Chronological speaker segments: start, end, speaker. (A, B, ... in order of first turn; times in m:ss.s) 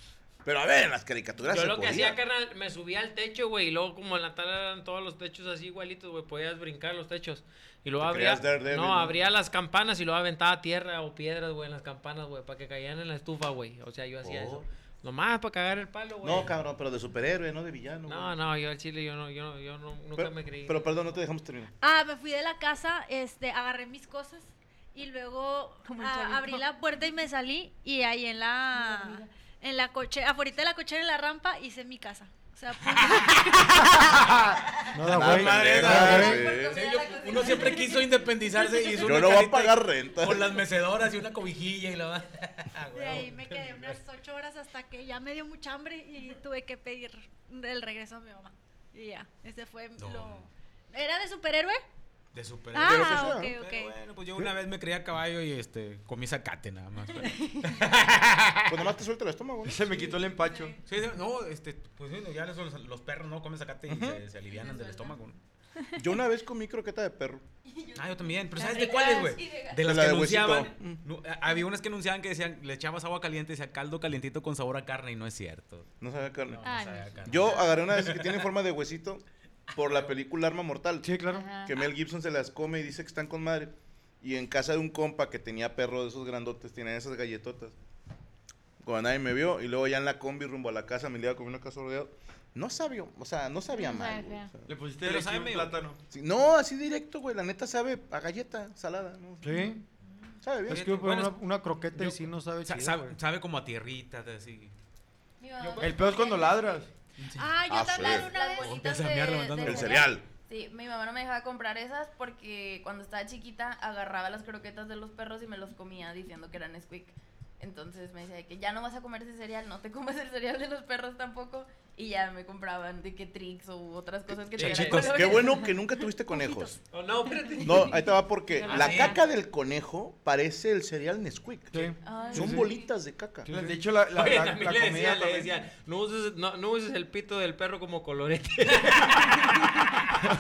0:00.4-0:02.2 A
0:01.5-0:16.5 B
0:08.0-0:09.2 A
0:14.2-0:14.6 A
0:16.2-0:18.4 A
0:18.1-0:21.2 B
0:20.2-0:21.7 A
0:21.8-0:34.5 C
0:25.9-0:26.5 D
0:28.8-0:29.2 D
0:32.9-0:44.0 E
0:34.9-0:36.5 F
0:35.1-0:36.8 A
0:35.7-0:38.2 G
0:39.0-0:40.6 A
0:42.9-0:51.8 C
0:50.0-0:50.5 E
0:52.3-0:58.8 E
0:52.7-0:54.0 C
0:52.8-0:53.6 A
0:58.7-1:00.0 A
0:59.6-1:00.8 H
1:00.8-1:05.4 E
1:03.9-1:04.2 A
1:04.5-1:05.2 G
1:06.0-1:07.4 A
1:07.7-1:10.0 G
1:08.0-1:15.9 E
1:09.8-1:11.0 A
1:16.0-1:16.6 A
1:16.5-1:18.4 E
1:16.6-1:17.6 D
1:17.2-1:19.2 A
1:19.8-1:20.1 E
1:19.8-1:21.1 A
1:21.0-1:21.5 F
1:21.3-1:21.7 D
1:21.6-1:27.8 A
1:28.8-1:34.6 A
1:33.7-1:34.5 D
1:34.7-1:36.0 H
1:35.0-1:35.8 E
1:36.1-1:39.7 A
1:39.4-1:39.8 F
1:40.4-1:40.9 A
1:40.7-1:43.2 F
1:40.7-1:41.4 E
1:41.9-1:44.7 E
1:45.4-1:46.7 G
1:45.6-1:45.9 E
1:45.8-1:46.9 H
1:47.2-1:48.1 E
1:47.4-1:48.8 C
1:47.7-1:48.3 A
1:48.0-2:06.1 G
1:48.6-1:50.1 E
1:49.6-1:50.2 A
2:04.6-2:05.2 B
2:04.6-2:06.8 A
2:04.6-2:05.4 E
2:06.9-2:08.1 B
2:07.6-2:13.5 A
2:08.6-2:09.2 B
2:08.6-2:09.2 E
2:11.7-2:12.7 F
2:12.0-2:12.9 G
2:13.4-2:13.8 F
2:13.5-2:15.5 H
2:14.2-2:19.9 B
2:18.8-2:19.7 E